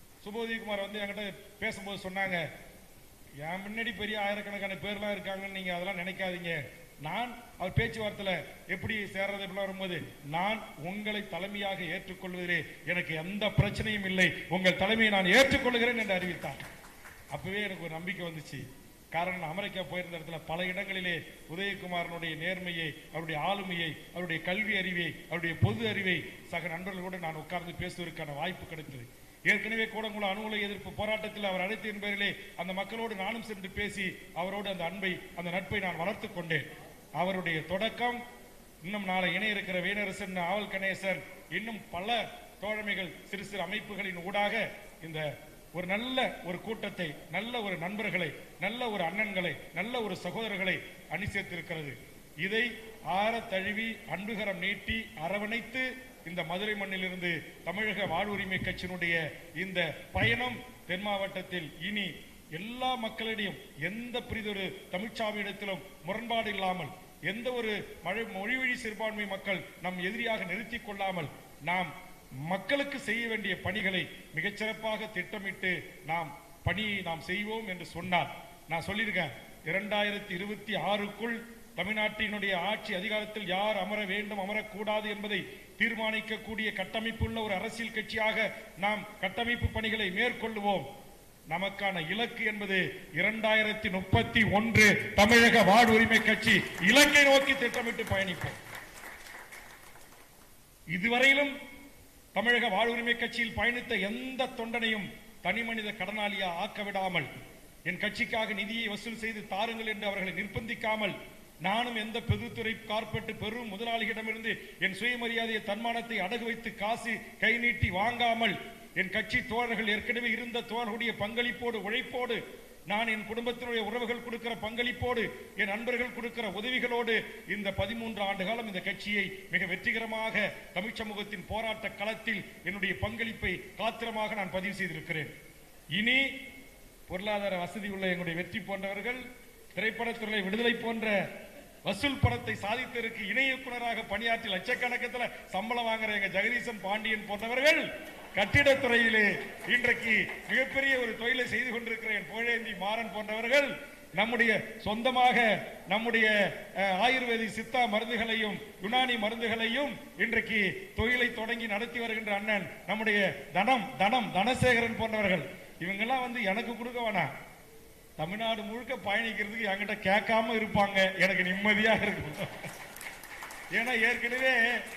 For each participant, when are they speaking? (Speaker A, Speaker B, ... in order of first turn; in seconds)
Speaker A: 0.2-2.5, 3.4-16.6, 17.3-36.6, 37.2-38.2, 38.8-71.9, 72.5-90.9, 91.5-98.6, 100.9-101.5, 102.3-107.3, 107.9-135.3, 135.9-136.3, 137.1-139.2, 139.8-141.2, 141.8-167.3, 168.2-172.7, 173.8-174.8